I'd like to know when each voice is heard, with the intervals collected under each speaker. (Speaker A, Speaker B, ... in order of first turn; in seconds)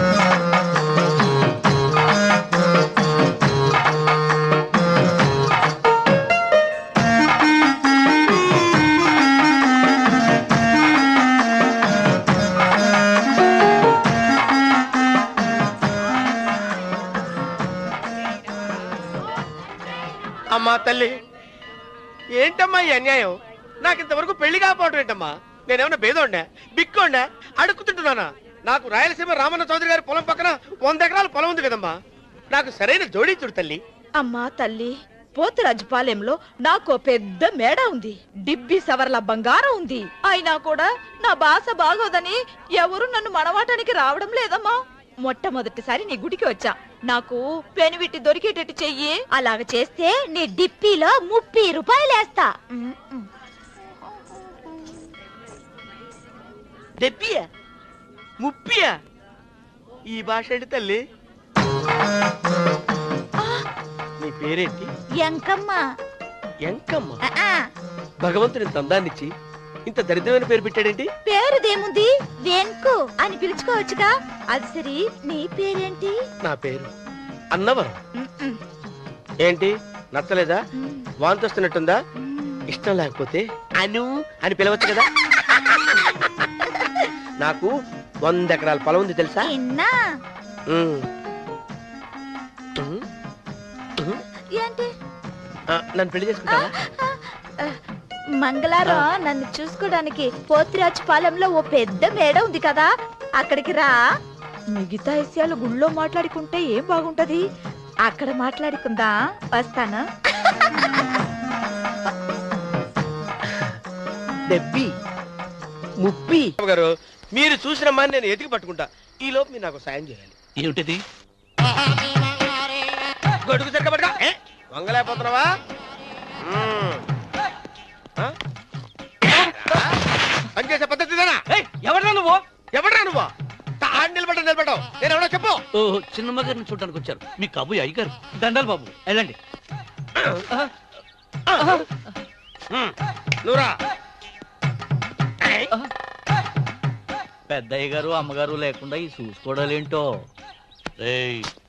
Speaker A: 20.5-21.1, 22.4-31.9, 32.5-33.8, 57.0-57.5, 58.4-58.9, 60.1-61.0, 64.2-64.9, 66.7-67.2, 68.2-69.3, 69.9-71.1, 76.4-76.9, 77.5-77.9, 79.4-80.6, 81.2-82.0, 82.7-85.1, 87.4-87.7, 88.2-89.5, 90.7-91.0, 92.8-93.0, 95.7-96.7, 114.5-114.9, 116.0-120.3, 123.4-125.5, 126.4-127.0, 129.5-129.9, 130.5-131.4, 132.7-133.3, 133.8-135.6, 141.5-141.8, 143.4-143.8, 145.4-145.7
Speaker B: 34.2-53.3, 65.2-65.8, 67.3-67.6, 71.2-76.1, 78.2-78.6, 80.8-81.1, 82.2-82.7, 89.4-89.9, 94.5-94.9, 96.5-97.8, 98.4-104.0, 104.7-107.4, 108.0-110.0
Speaker C: 120.6-121.0, 135.8-138.2, 151.0-151.5
Speaker D: 131.5-132.4, 138.4-139.3, 147.5-150.3